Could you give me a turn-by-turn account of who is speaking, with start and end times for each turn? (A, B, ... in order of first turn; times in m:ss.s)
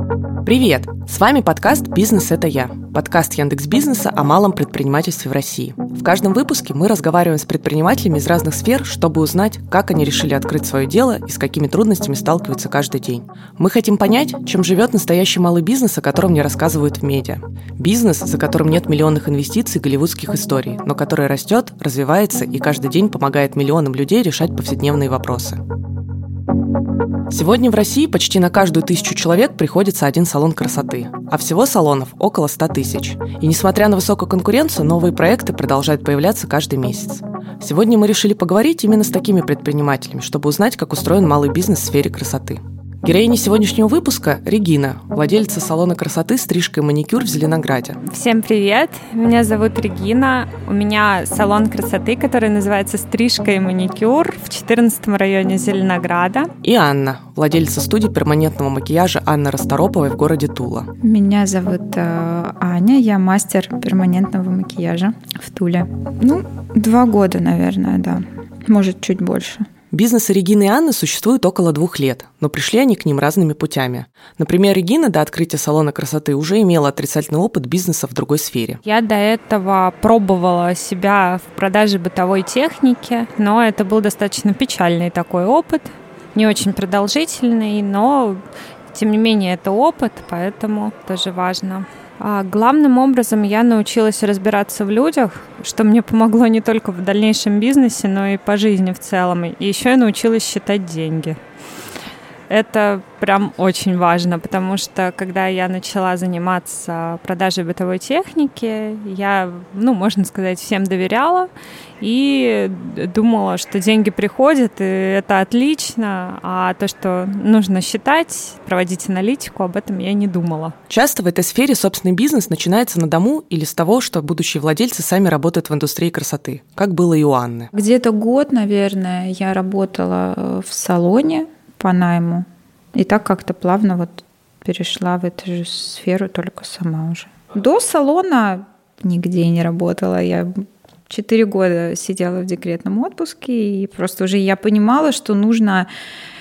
0:00.4-0:25.6 A
0:27.3-0:48.0 A
0:48.0-0:56.5 B
0:56.6-1:00.9 A
1:01.0-1:09.7 C
1:09.9-1:18.8 A
1:18.8-1:28.4 B
1:28.9-1:41.4 B
1:42.5-1:51.5 B
1:52.0-2:00.7 B
2:00.9-2:07.7 A
2:07.7-2:25.9 C